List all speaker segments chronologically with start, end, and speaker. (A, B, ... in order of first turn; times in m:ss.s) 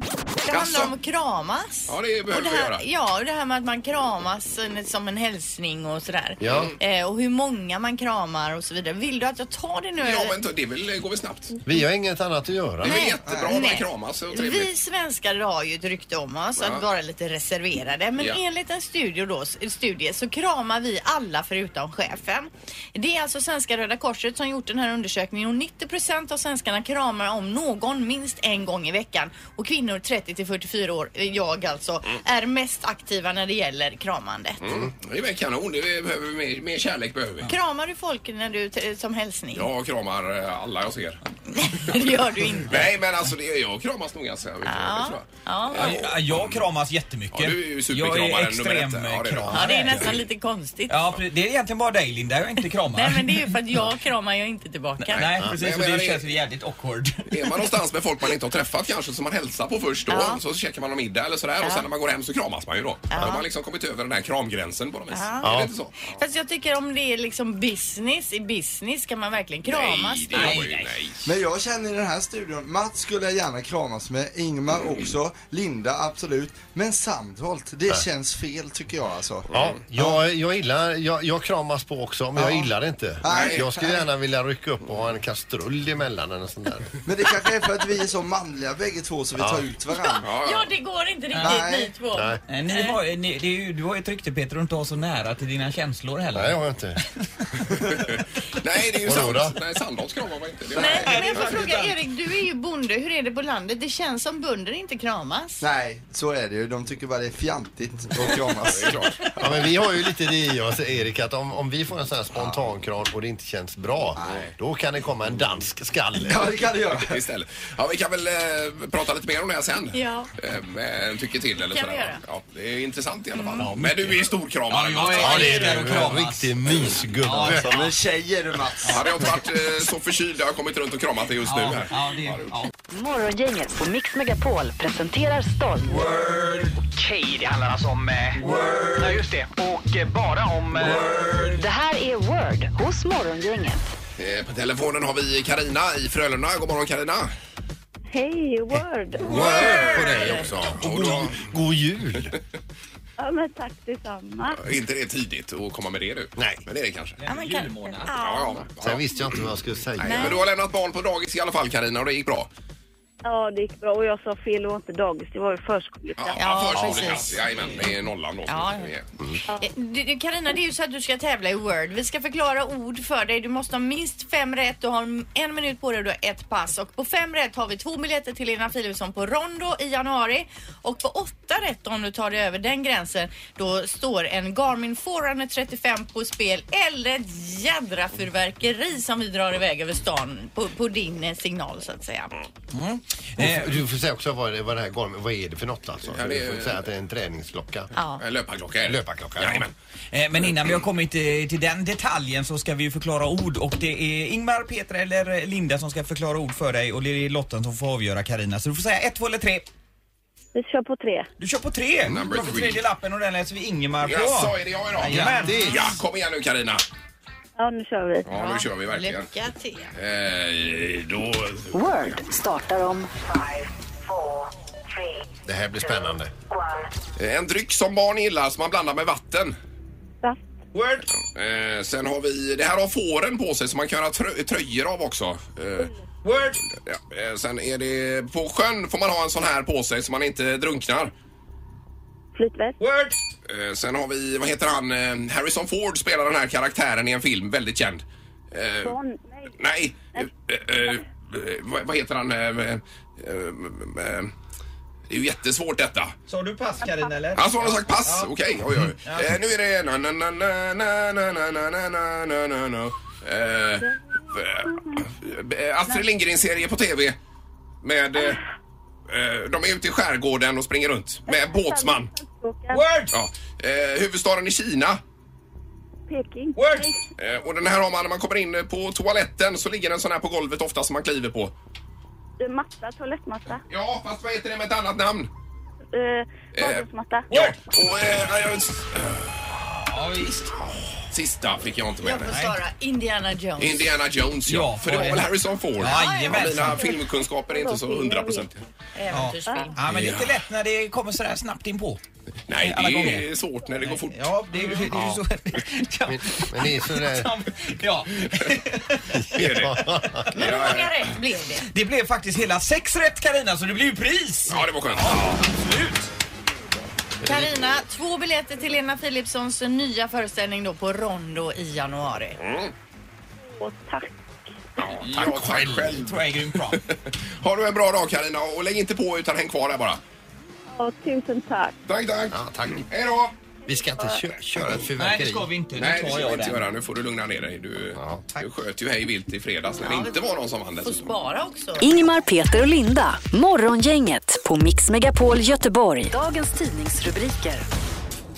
0:00.4-0:10.3 A
0:00.5-0:00.9 B
0:01.9-0:02.8 B
0:06.4-0:06.7 C
0:06.5-0:06.8 B
0:10.0-0:11.6 B
0:11.6-0:13.1 C
0:12.8-0:14.7 B
0:12.8-0:34.6 A
0:13.3-0:13.7 D
0:16.6-0:16.8 B
0:34.6-0:37.5 B
0:37.4-0:39.7 A
0:39.5-0:41.2 B
0:41.5-0:42.9 A
0:42.6-0:46.6 B
0:44.6-0:46.0 A
0:45.7-0:50.2 E
0:47.3-0:50.2 B
0:49.5-0:51.1 A
0:50.9-0:53.6 E
0:52.9-0:55.3 A
0:55.1-0:57.5 E
0:55.1-0:56.3 B
0:57.3-1:06.2 B
1:00.1-1:00.4 A
1:01.6-1:01.8 A
1:03.1-1:03.4 A
1:05.1-1:05.5 A
1:05.4-1:05.7 C
1:06.1-1:10.6 A
1:09.6-1:11.2 B
1:10.3-1:11.0 E
1:11.2-1:20.1 D
1:19.5-1:26.9 C
1:22.4-1:22.7 D
1:23.2-1:24.0 D
1:23.3-1:23.6 B
1:27.0-1:30.3 D
1:29.4-1:29.6 C
1:30.0-1:33.0 A
1:30.2-1:30.7 B
1:31.3-1:31.6 E
1:31.4-1:31.9 D
1:32.1-1:32.4 C
1:32.5-1:37.0 E
1:36.3-1:37.0 C
1:37.8-1:41.6 B
1:39.0-1:39.6 C
1:40.7-1:42.0 E
1:40.8-1:45.6 A
1:45.6-1:49.2 D
1:48.6-1:49.2 B
1:49.4-1:56.4 C
1:54.2-1:54.5 D
1:56.2-1:57.2 D
1:57.0-2:05.8 B
1:59.9-2:00.3 A
2:01.7-2:02.2 A
2:03.3-2:03.6 A
2:03.6-2:07.9 E
2:05.2-2:07.8 C
2:07.4-2:09.1 D
2:08.8-2:09.1 E
2:08.9-2:12.6 B
2:11.4-2:12.7 E
2:12.9-2:16.0 F
2:15.9-2:16.7 E
2:16.8-2:18.4 G
2:18.4-2:19.2 E
2:19.0-2:21.4 G
2:20.8-2:21.6 E
2:21.5-2:23.8 F
2:24.2-2:27.3 B
2:28.1-2:30.0 H
2:29.2-2:32.4 C
2:29.3-2:30.4 A
2:29.5-2:29.9 B
2:30.5-2:31.5 B
2:33.2-2:34.6 H
2:34.6-2:37.2 B
2:36.4-2:36.6 C
2:37.2-2:38.1 E
2:37.2-2:38.6 A
2:38.1-2:39.0 B
2:38.8-2:40.3 C
2:40.0-2:42.5 B
2:40.0-2:40.4 A
2:43.2-2:47.0 H
2:46.2-2:49.1 B
2:46.4-2:47.9 A
2:47.0-2:47.9 E
2:48.5-2:48.9 A
2:49.6-3:12.3 A
3:12.7-3:13.8 E
3:13.4-3:17.9 C
3:16.1-3:16.8 B
3:17.9-3:18.2 A
3:18.2-3:19.7 B
3:18.8-3:19.7 C
3:20.1-3:29.6 E
3:30.5-3:31.3 H
3:31.4-3:35.7 E
3:32.0-3:32.8 B
3:34.0-3:36.8 B
3:35.1-3:35.9 C
3:37.6-3:38.3 H
3:38.2-3:39.3 B
3:38.2-3:39.9 A
3:39.9-3:41.8 B
3:41.7-3:43.1 F
3:45.4-3:46.3 C
3:47.2-3:49.5 B
3:50.7-3:51.1 E
3:51.2-3:55.9 B
3:56.2-3:56.6 E
3:56.6-4:01.1 B
4:02.4-4:02.8 H
4:02.8-4:03.2 E
4:03.4-4:09.0 B
4:08.8-4:09.5 H
4:09.6-4:14.3 B
4:15.1-4:16.1 B
4:16.3-4:18.3 E
4:16.8-4:17.1 H
4:17.4-4:27.2 B
4:19.0-4:19.4 E
4:27.8-4:28.4 B
4:29.1-4:32.1 B
4:31.3-4:32.9 H
4:32.7-4:33.1 E
4:33.1-4:35.0 B
4:36.1-4:37.0 H
4:36.6-4:36.9 E
4:37.2-4:41.5 B
4:42.4-4:43.6 H
4:43.7-4:45.3 B
4:45.9-4:47.3 H
4:46.5-4:49.8 B
4:47.3-4:47.6 E
4:49.8-4:50.6 E
4:51.1-4:52.3 B
4:52.0-4:54.0 A
4:52.2-4:52.6 E
4:53.6-4:58.6 B
4:54.4-4:56.9 E
4:55.9-4:56.5 A
4:56.7-4:58.5 H
4:58.9-4:59.8 A
4:59.1-5:02.0 E
4:59.4-4:59.7 H
4:59.8-5:00.3 B
5:02.5-5:05.0 B
5:02.5-5:10.5 E
5:06.0-5:07.3 C
5:09.1-5:10.3 C
5:09.3-5:11.1 B
5:10.3-5:11.7 A
5:11.6-5:16.1 E
5:14.5-5:15.4 B
5:17.2-5:22.4 A
5:22.4-5:22.7 B
5:23.5-5:24.1 H
5:24.8-5:30.0 B
5:25.0-5:26.0 C
5:25.9-5:26.8 E
5:30.7-5:31.8 H
5:31.9-5:33.3 B
5:32.3-5:32.9 C
5:33.7-5:35.5 C
5:35.0-5:36.6 E
5:35.8-5:41.2 B
5:37.9-5:38.2 C
5:39.8-5:40.2 A
5:40.8-5:41.9 A
5:41.8-5:47.6 F